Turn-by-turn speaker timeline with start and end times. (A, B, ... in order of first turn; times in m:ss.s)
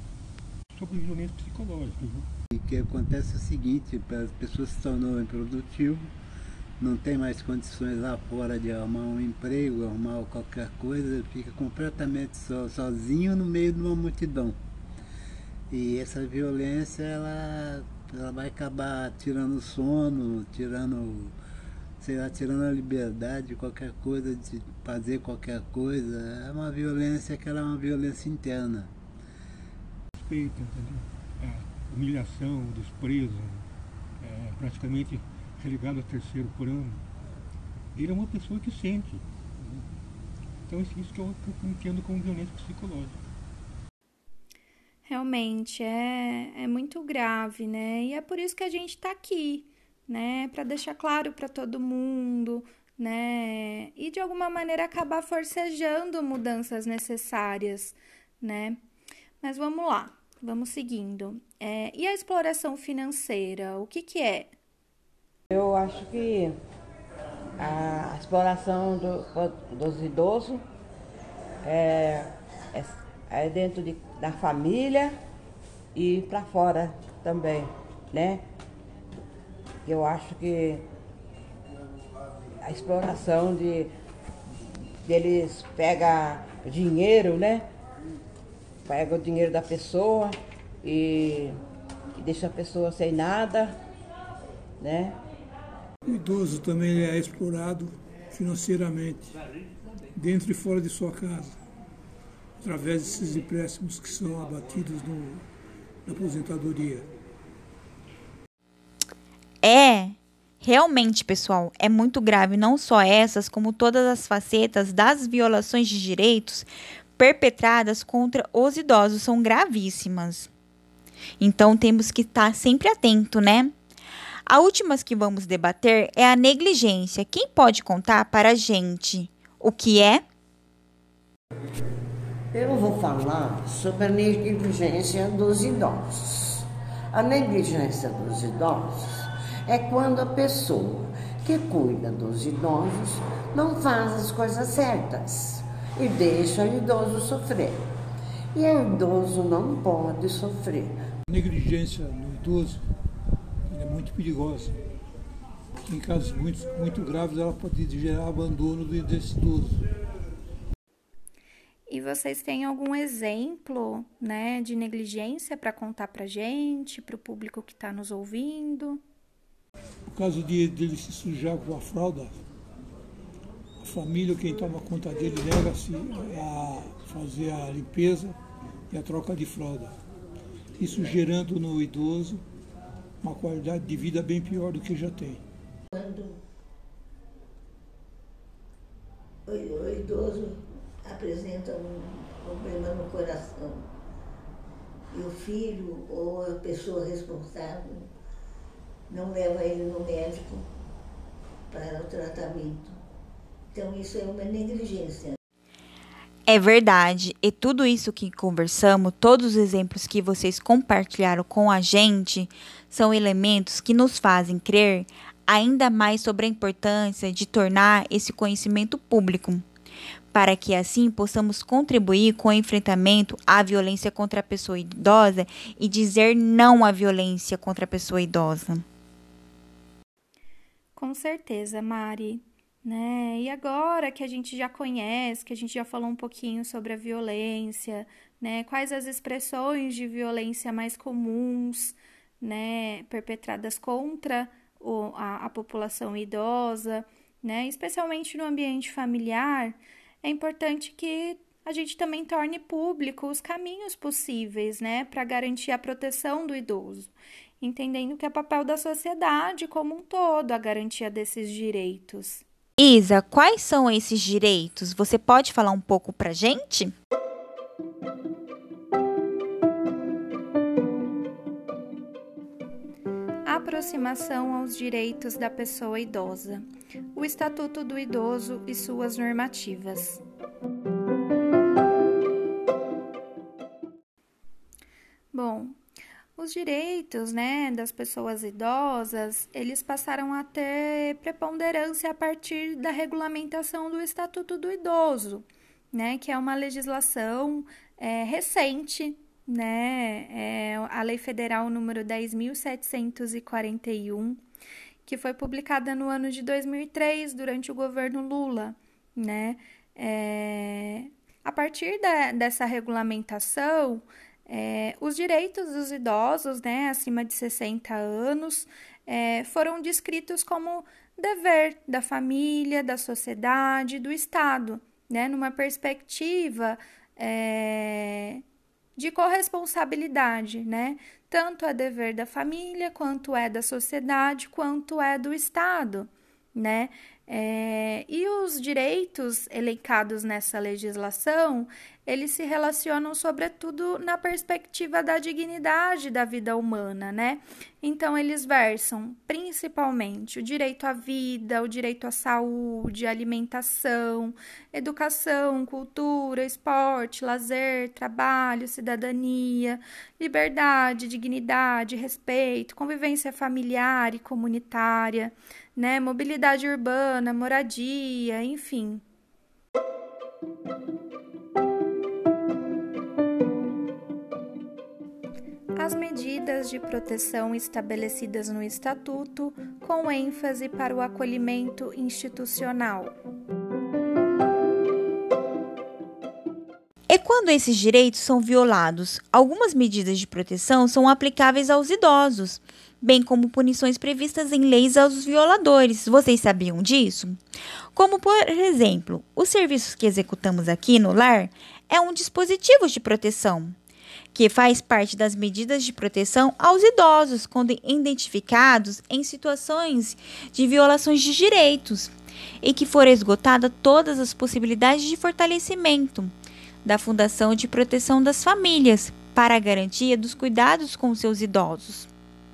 0:00.7-0:02.3 A
0:02.5-0:06.1 B
0:06.8-0:14.6 B
0:15.7-0:21.3 B
0:22.0-0:28.9 B
0:30.1-0:33.6 A
0:34.2-0:37.0 A
0:37.9-0:39.9 A
0:40.7-0:43.2 A
0:45.1-0:58.8 C
0:59.4-1:04.5 C
1:05.5-1:06.6 D
1:07.6-1:10.6 D
1:11.6-1:15.2 D
1:15.9-1:18.4 D
1:19.8-1:20.8 D
1:22.6-1:23.9 D
1:25.0-1:27.7 D
1:28.8-1:31.6 D
1:32.2-1:33.8 D
1:34.8-1:35.2 D
1:36.0-1:39.3 E
1:40.1-1:41.6 E
1:42.6-1:45.4 E
1:46.0-1:47.1 E
1:49.6-2:00.5 F
2:01.4-2:03.7 F
2:04.5-2:10.2 F
2:12.5-2:27.9 G
2:28.5-2:31.0 G
2:31.3-2:32.8 E
2:33.7-2:34.8 E
2:35.8-2:39.8 E
2:41.9-2:49.0 C
2:50.1-2:52.4 E
2:53.8-2:58.4 E
2:58.9-2:59.9 E
3:00.8-3:02.4 E
3:03.2-3:05.4 E
3:05.9-3:06.4 H
3:09.5-3:13.8 H
3:15.1-3:18.1 H
3:19.1-3:20.7 H
3:21.7-3:23.0 H
3:23.7-3:25.4 H
3:26.5-3:39.6 F
3:40.3-3:48.8 F
3:51.0-4:22.4 C
4:22.8-4:26.9 F
4:33.4-4:40.2 C
4:45.3-4:45.8 C
4:46.4-5:04.4 C
5:05.0-5:28.4 C
5:29.0-6:09.0 C
6:15.8-6:23.1 C
6:27.1-6:37.4 F
6:37.9-6:43.7 F
6:44.3-6:56.3 F
6:56.8-7:02.1 F